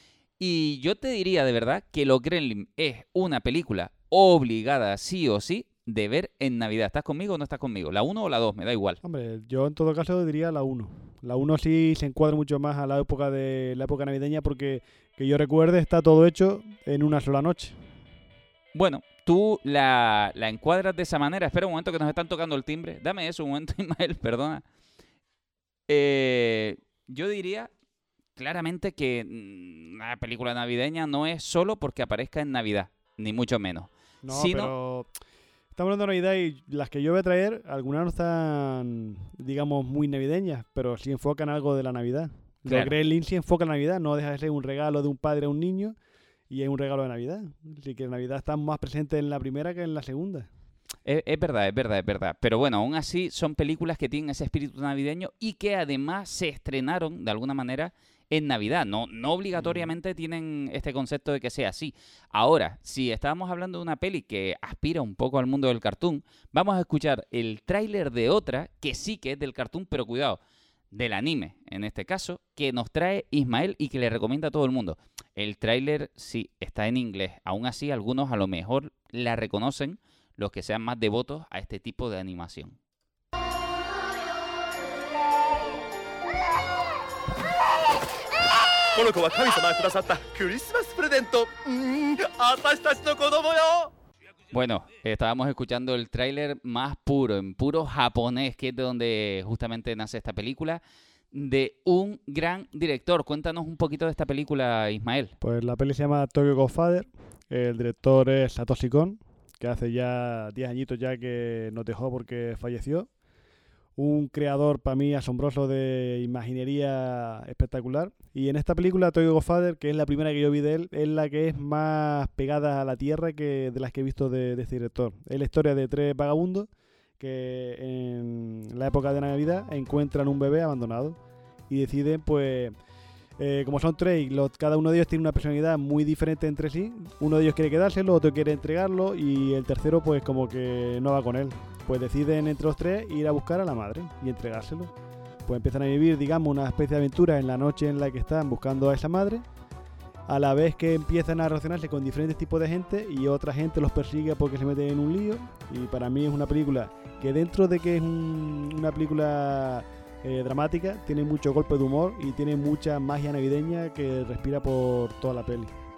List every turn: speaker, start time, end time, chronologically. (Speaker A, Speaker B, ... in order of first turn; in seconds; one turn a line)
Speaker A: 0.4-9.0
Speaker B: 9.0-17.8
Speaker A: 18.7-24.6
Speaker A: 25.9-27.7
Speaker A: 28.4-34.7
Speaker B: 34.2-35.1
Speaker B: 35.8-46.0
Speaker A: 42.7-42.9
Speaker B: 46.5-50.5
Speaker A: 51.0-70.4
Speaker B: 59.5-59.9
Speaker A: 70.9-82.8
Speaker C: 88.9-93.9
Speaker A: 94.5-100.8
Speaker A: 101.3-105.3
Speaker B: 105.4-113.1
Speaker B: 114.0-132.7
Speaker B: 133.4-144.9
Speaker B: 145.5-149.4
Speaker B: 150.3-165.7